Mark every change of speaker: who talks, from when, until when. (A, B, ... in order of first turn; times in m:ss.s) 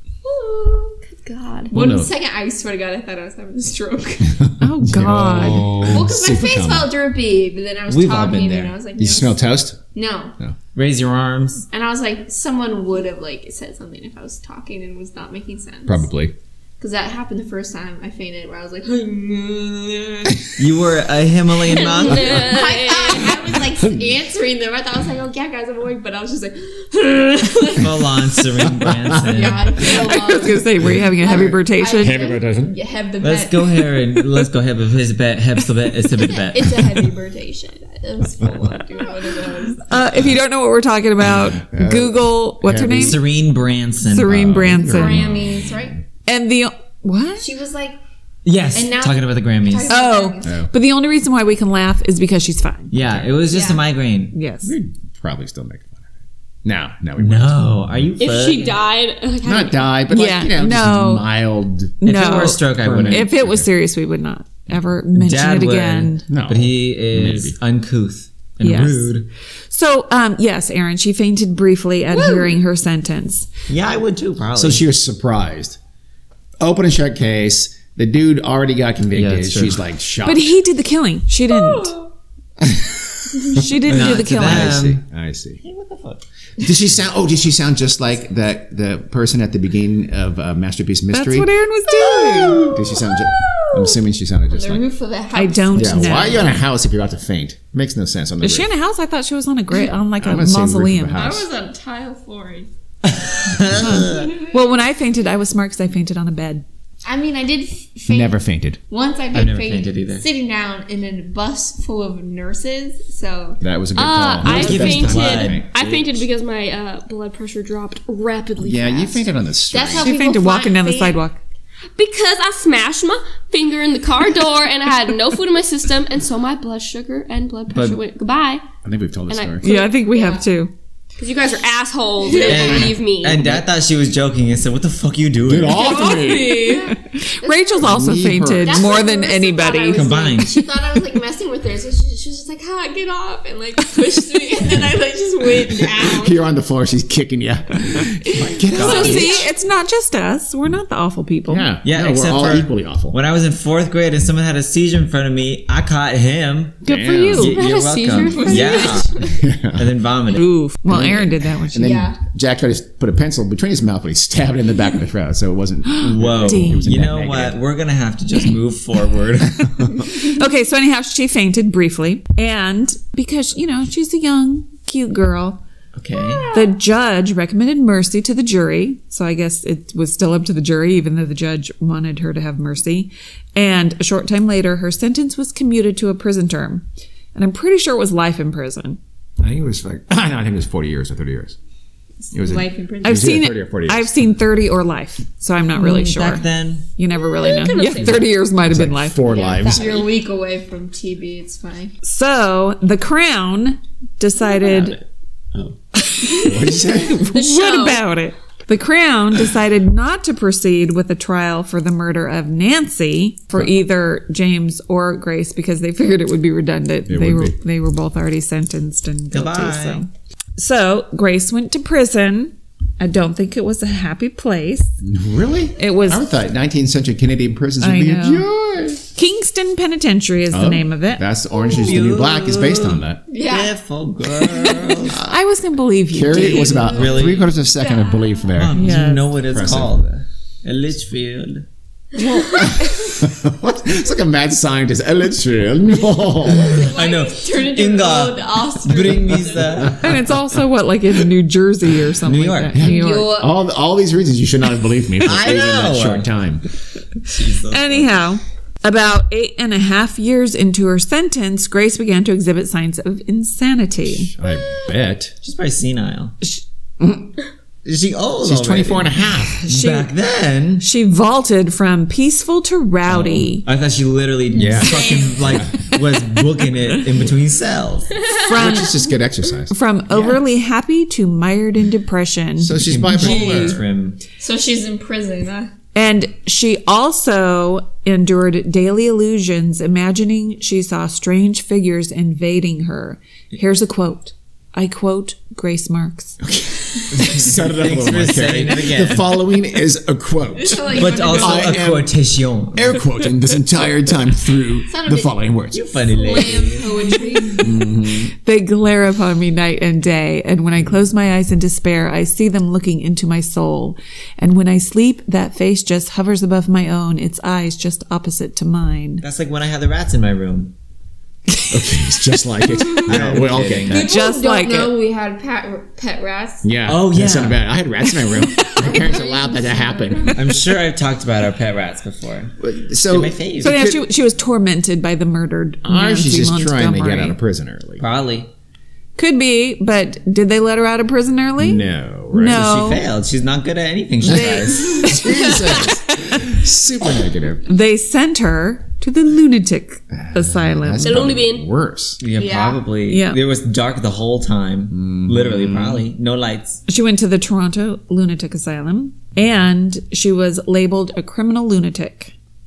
0:00.2-0:04.5 A
0:01.7-0:02.1 B
0:04.3-0:06.9 B
0:04.6-0:05.8 C
0:05.9-0:09.4 A
0:07.9-0:08.8 D
0:09.0-0:09.8 B
0:09.9-0:10.4 A
0:10.8-0:11.7 D
0:11.7-0:16.1 A
0:15.9-0:16.4 B
0:16.8-0:20.4 A
0:20.6-0:22.5 D
0:21.6-0:23.4 E
0:21.8-0:28.0 A
0:23.8-0:24.1 B
0:27.8-0:29.8 D
0:28.8-0:29.4 B
0:29.3-0:33.9 A
0:30.0-0:32.2 C
0:32.0-0:32.7 B
0:33.2-0:36.8 D
0:36.3-0:39.9 A
0:39.8-0:43.2 C
0:41.2-0:43.2 B
0:42.9-0:44.5 D
0:44.0-0:45.2 C
0:44.3-0:46.0 B
0:44.9-0:46.0 A
0:46.3-0:47.5 C
0:47.4-0:48.0 A
0:48.4-0:50.0 D
0:48.7-0:50.6 A
0:49.9-0:52.9 C
0:50.4-0:50.7 B
0:52.9-0:54.4 D
0:53.5-0:53.8 A
0:54.3-0:54.8 C
0:54.6-0:56.0 B
0:56.6-0:57.7 B
0:57.2-0:58.8 D
0:58.2-0:59.9 E
0:59.4-1:02.0 B
1:00.1-1:01.3 C
1:02.0-1:06.2 C
1:02.0-1:03.3 D
1:02.7-1:03.7 B
1:05.2-1:09.3 D
1:06.3-1:07.6 B
1:08.6-1:09.1 C
1:09.7-1:13.5 C
1:12.2-1:12.5 E
1:13.7-1:14.8 D
1:14.6-1:15.8 B
1:16.6-1:20.5 B
1:19.1-1:19.8 D
1:20.2-1:21.9 C
1:21.5-1:22.1 E
1:22.6-1:25.6 B
1:23.5-1:24.8 C
1:23.9-1:25.0 D
1:25.6-1:26.2 D
1:26.6-1:31.5 B
1:31.1-1:32.6 C
1:32.0-1:32.8 D
1:32.2-1:33.9 A
1:32.7-1:34.9 B
1:34.5-1:36.6 A
1:35.3-1:36.6 C
1:35.7-1:38.7 B
1:38.4-1:41.3 C
1:40.2-1:41.5 B
1:41.1-1:42.7 A
1:43.0-1:44.4 D
1:43.7-1:46.6 C
1:43.8-1:44.6 A
1:47.0-1:48.4 A
1:48.1-1:48.8 B
1:48.9-1:53.6 A
1:49.3-1:50.2 D
1:53.6-1:55.7 B
1:54.0-1:59.3 E
1:54.4-1:56.2 D
1:58.6-2:00.1 B
1:59.7-2:01.2 A
2:00.0-2:01.4 C
2:02.0-2:08.6 E
2:07.7-2:08.0 D
2:08.8-2:09.6 B
2:09.3-2:10.0 E
2:09.6-2:10.7 C
2:11.2-2:13.5 E
2:12.2-2:12.8 A
2:12.4-2:16.0 D
2:12.6-2:12.9 B
2:15.4-2:16.8 B
2:15.7-2:16.9 E
2:15.8-2:16.9 A
2:16.6-2:20.1 C
2:17.4-2:17.8 A
2:17.8-2:19.0 B
2:18.6-2:26.4 A
2:19.9-2:20.6 D
2:25.9-2:29.5 B
2:28.6-2:29.5 A
2:28.7-2:29.3 D
2:28.8-2:31.7 C
2:31.5-2:33.2 B
2:31.8-2:36.8 D
2:36.8-2:37.5 B
2:36.8-2:37.6 C
2:37.3-2:41.2 D
2:37.5-2:39.3 A
2:37.7-2:39.3 E
2:39.2-2:39.9 B
2:40.4-2:42.0 C
2:40.9-2:47.6 B
2:41.8-2:42.2 A
2:45.9-2:46.9 C
2:46.0-2:49.7 D
2:49.6-2:50.2 B
2:49.8-2:55.6 C
2:56.0-2:56.5 D
2:56.5-3:09.0 C
3:09.4-3:11.6 B
3:12.2-3:13.4 A
3:12.3-3:14.2 B
3:13.0-3:16.4 C
3:15.8-3:16.9 D
3:17.0-3:19.2 C
3:17.4-3:18.3 E
3:18.1-3:20.1 B
3:19.2-3:21.9 A
3:22.0-3:25.0 C
3:24.6-3:25.8 D
3:25.9-3:44.9 C
3:26.4-3:27.2 B
3:27.3-3:28.0 E
3:37.1-3:37.6 B
3:39.3-3:40.0 D
3:45.0-3:49.1 B
3:45.8-3:46.2 C
3:47.8-3:48.5 C
3:49.2-3:51.2 C
3:50.5-3:53.2 B
3:51.7-3:55.2 D
3:53.3-3:53.7 A
3:55.0-3:57.0 C
3:55.1-3:55.4 B
3:56.1-3:59.9 B
3:56.5-3:58.5 A
3:56.9-3:57.5 D
3:58.6-4:01.6 D
3:58.7-3:59.3 C
4:02.2-4:03.1 C
4:02.4-4:02.7 A
4:02.8-4:06.8 B
4:06.5-4:10.0 A
4:06.6-4:10.1 D
4:09.7-4:10.2 B
4:10.0-4:13.4 C
4:12.2-4:12.8 D
4:12.7-4:16.6 B
4:12.8-4:13.6 A
4:15.2-4:16.3 D
4:17.2-4:18.2 D
4:17.7-4:24.3 C
4:24.1-4:25.4 B
4:25.4-4:26.4 D
4:27.0-4:27.3 B
4:27.8-4:30.8 D
4:28.4-4:29.6 B
4:29.6-4:30.1 C
4:30.8-4:33.6 C
4:33.1-4:38.1 D
4:34.5-4:35.9 B
4:34.6-4:35.5 A
4:34.7-4:35.2 E
4:38.4-4:39.0 C
4:38.5-4:40.4 B
4:39.7-4:42.8 C
4:42.6-4:43.8 B
4:42.8-4:44.2 D
4:43.2-4:43.8 A
4:44.4-4:45.7 A
4:45.9-4:56.4 C
4:56.4-5:02.1 B
4:57.1-4:59.4 D
5:00.6-5:01.8 A
5:00.9-5:03.0 D
5:02.7-5:05.8 B
5:04.9-5:05.4 A
5:05.7-5:07.1 D
5:06.1-5:07.7 A
5:07.6-5:08.3 B
5:08.3-5:19.2 C
5:19.2-5:20.7 D
5:21.5-5:21.8 C
5:21.7-5:24.0 B
5:23.0-5:24.1 D
5:23.9-5:26.7 A
5:23.9-5:24.9 C
5:26.6-5:30.4 B
5:26.9-5:27.7 D
5:28.3-5:29.0 C
5:28.6-5:30.4 A
5:30.3-5:33.8 D
5:32.6-5:34.0 B
5:33.6-5:37.4 C
5:35.8-5:38.0 B
5:38.0-5:38.5 D
5:39.2-5:43.0 C
5:41.6-5:42.6 B
5:42.5-5:45.2 D
5:44.2-5:47.7 B
5:44.3-5:46.5 C
5:47.7-5:51.3 C
5:50.1-5:52.2 B
5:51.0-5:51.7 E
5:52.2-5:56.8 D
5:52.3-5:52.8 A
5:53.1-5:53.4 C
5:54.9-5:56.1 B
5:56.9-6:02.3 C